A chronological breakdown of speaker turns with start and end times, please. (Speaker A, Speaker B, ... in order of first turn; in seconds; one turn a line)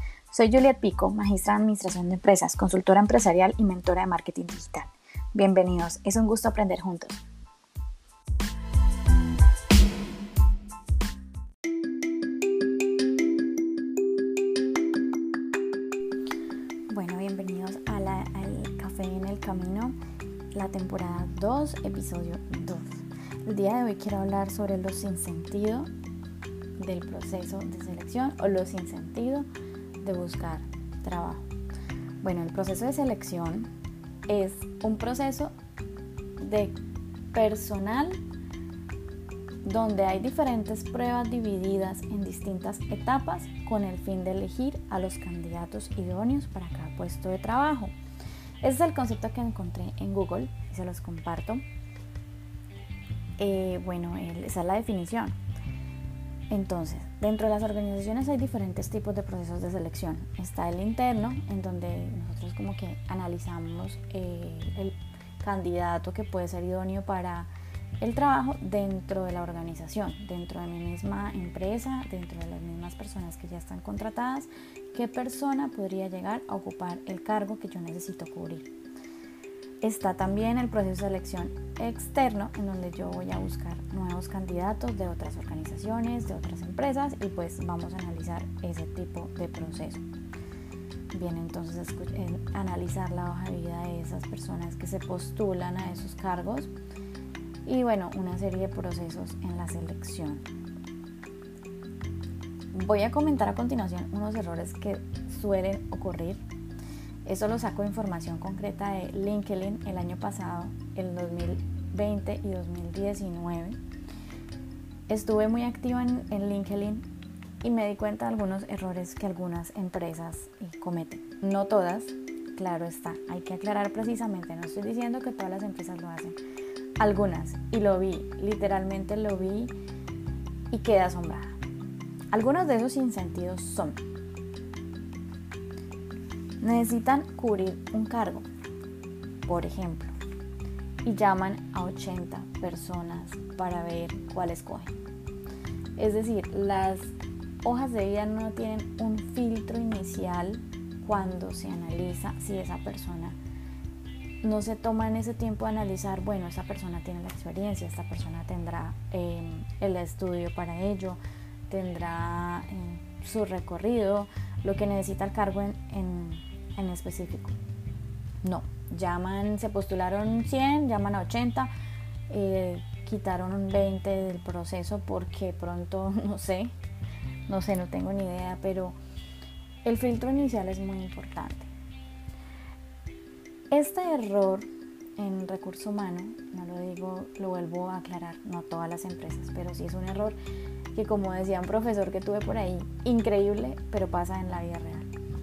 Speaker A: 0.3-7.2
Speaker A: 16.9-20.0
Speaker A: 20.5-25.9
Speaker A: 26.8-29.5
Speaker A: 30.0-31.5
Speaker A: 32.2-33.7
Speaker A: 34.3-35.5
Speaker A: 36.4-36.8
Speaker A: 37.3-38.2
Speaker A: 39.6-47.9
Speaker A: 48.6-51.6
Speaker A: 53.4-55.4
Speaker A: 56.5-67.5
Speaker A: 68.0-78.7
Speaker A: 79.8-90.0
Speaker A: 91.1-96.7
Speaker A: 97.7-100.4
Speaker A: 102.7-106.4
Speaker A: 107.2-113.8
Speaker A: 115.1-117.0
Speaker A: 117.6-126.4
Speaker A: 127.0-129.7
Speaker A: 130.7-131.6
Speaker A: 132.3-134.0
Speaker A: 136.6-138.5
Speaker A: 139.5-140.1
Speaker A: 141.1-144.9
Speaker A: 146.0-153.4
Speaker A: 154.4-167.6
Speaker A: 168.4-171.7
Speaker A: 172.3-176.7
Speaker A: 177.5-179.0
Speaker A: 179.8-181.7
Speaker A: 183.7-190.4
Speaker A: 190.9-195.1